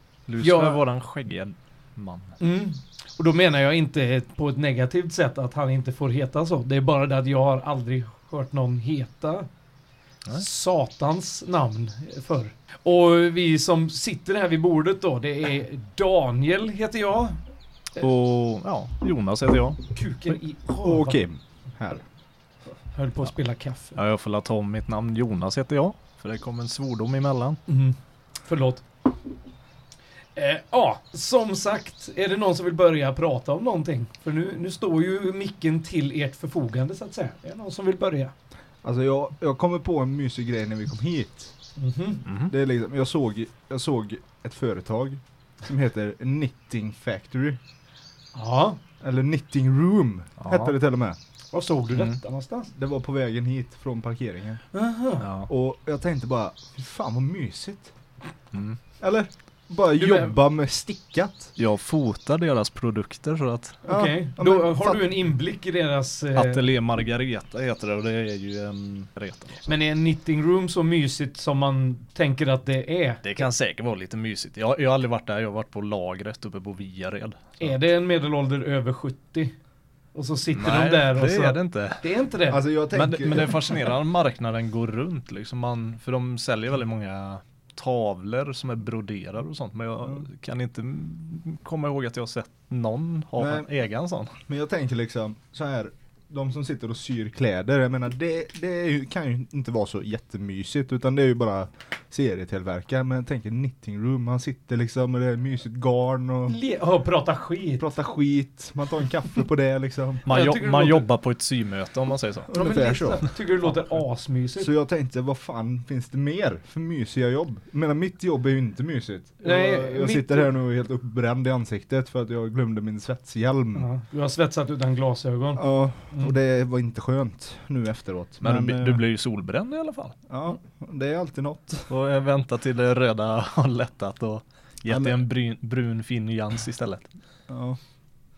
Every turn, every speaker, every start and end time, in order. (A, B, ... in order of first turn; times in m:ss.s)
0:00.3-0:02.4 A
0:00.4-0:00.8 B
0:02.4-0:09.5 B
0:10.3-0:17.4 B
0:18.0-0:19.8 A
0:19.9-0:21.2 B
0:20.8-0:22.0 C
0:22.9-0:24.0 B
0:24.0-0:27.6 A
0:27.7-0:28.8 B
0:30.4-0:38.3 B
0:38.8-0:41.5 C
0:41.8-0:42.2 B
0:42.2-0:42.5 A
0:42.5-0:47.6 C
0:48.4-0:48.8 B
0:49.0-0:51.2 C
0:50.4-0:50.7 A
0:51.5-0:52.7 B
0:52.8-0:54.6 C
0:54.7-0:55.3 B
0:55.2-0:55.5 A
0:55.5-0:57.9 C
0:58.5-0:58.8 A
0:59.0-1:01.5 C
1:00.0-1:00.3 B
1:01.6-1:03.8 A
1:03.8-1:06.6 B
1:03.9-1:05.0 C
1:06.4-1:09.7 A
1:09.6-1:13.4 B
1:13.2-1:17.7 A
1:17.6-1:19.6 B
1:20.2-1:22.6 B
1:20.5-1:22.0 A
1:22.5-1:23.9 C
1:22.9-1:34.4 A
1:33.4-1:33.7 C
1:34.5-1:46.6 C
1:46.5-1:47.9 B
1:47.8-1:50.3 C
1:50.2-1:52.5 A
1:50.3-1:51.1 B
1:52.5-1:53.2 C
1:52.5-1:54.7 B
1:54.6-2:03.9 C
1:59.4-2:00.5 B
2:03.7-2:06.3 B
2:05.6-2:09.0 C
2:08.4-2:10.2 A
2:10.3-2:11.9 C
2:11.9-2:17.1 A
2:14.9-2:15.2 C
2:17.5-2:17.8 C